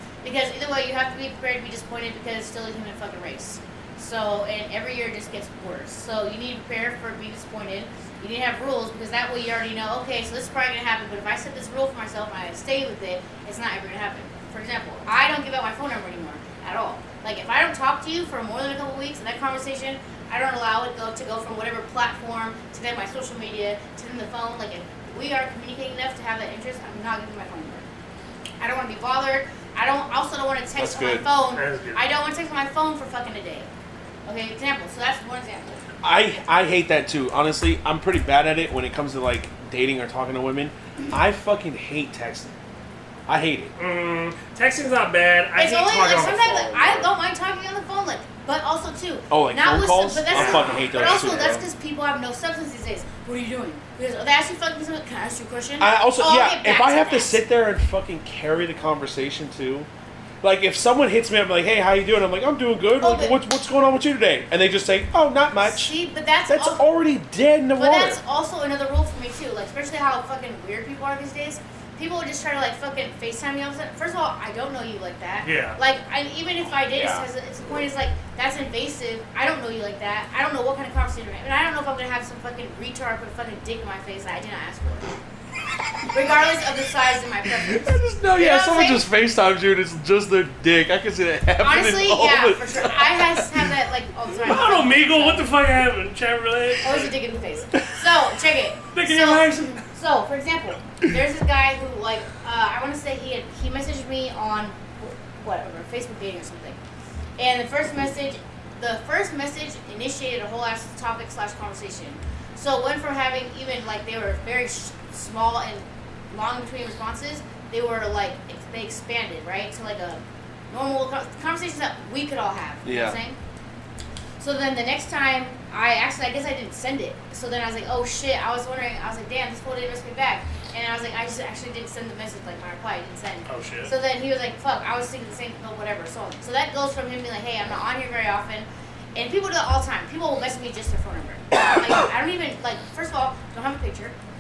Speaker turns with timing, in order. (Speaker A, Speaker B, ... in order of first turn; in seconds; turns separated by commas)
Speaker A: 0.2-27.9, Speaker A: 28.6-33.7, Speaker B: 30.8-31.3, Speaker C: 31.5-32.0, Speaker A: 34.3-35.8, Speaker B: 36.0-42.6, Speaker B: 43.3-43.7, Speaker C: 43.8-47.1, Speaker A: 45.6-57.4, Speaker B: 49.3-51.6, Speaker C: 50.3-51.2, Speaker B: 55.8-59.9, Speaker B: 60.4-65.9, Speaker A: 63.0-63.4, Speaker A: 65.6-66.8, Speaker B: 66.5-68.2, Speaker A: 67.8-85.1, Speaker C: 75.4-75.8, Speaker B: 76.8-77.3, Speaker A: 86.1-89.1, Speaker B: 87.6-93.7, Speaker A: 91.6-95.5, Speaker C: 94.4-97.1, Speaker A: 96.8-106.8, Speaker C: 98.9-99.8, Speaker A: 107.4-123.4, Speaker B: 122.8-123.2, Speaker A: 124.4-144.2, Speaker C: 133.5-133.9